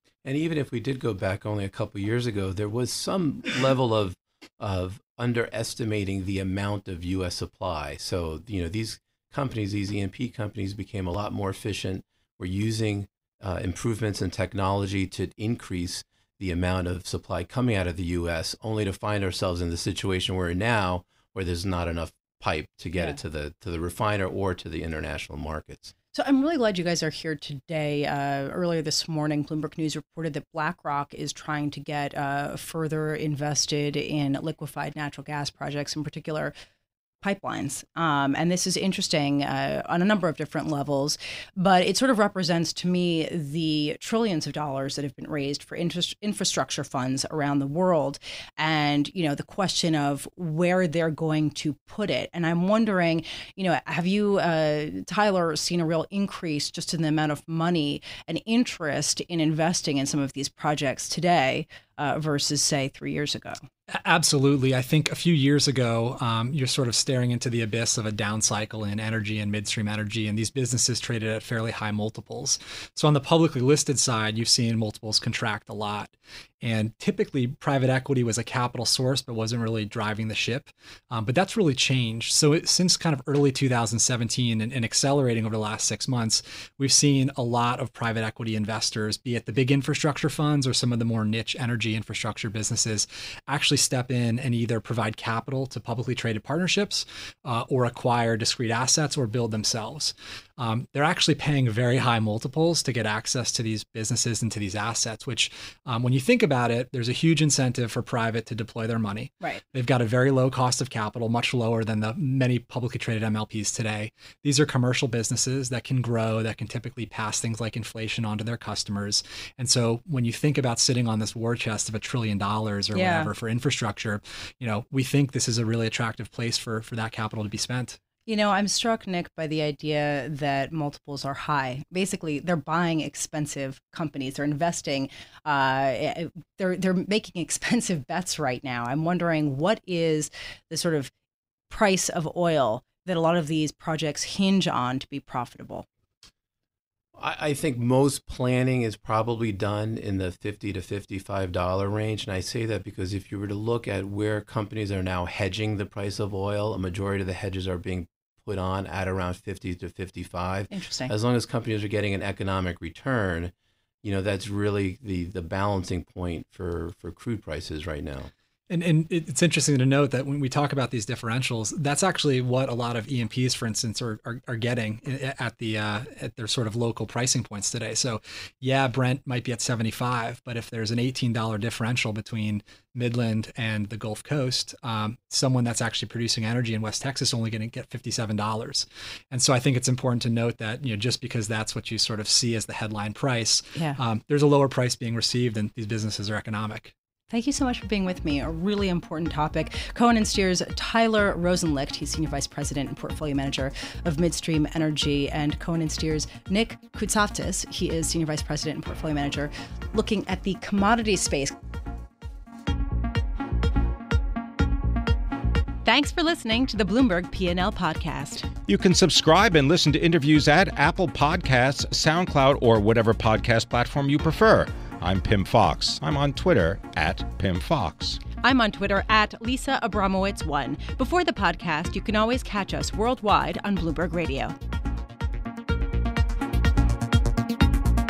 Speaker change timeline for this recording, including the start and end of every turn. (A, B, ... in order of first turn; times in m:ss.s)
0:00.2-0:25.9 A
0:26.1-0:36.5 B
0:37.2-1:03.6 B
1:03.9-2:08.0 C
2:02.9-2:03.3 B
2:08.3-2:21.1 B
2:21.7-2:25.9 B
2:27.2-2:48.3 A
2:40.7-2:41.1 B
2:48.7-3:16.9 C
3:17.3-3:31.6 B
3:35.8-3:38.5 B
3:38.7-3:48.2 D
3:48.4-3:54.6 B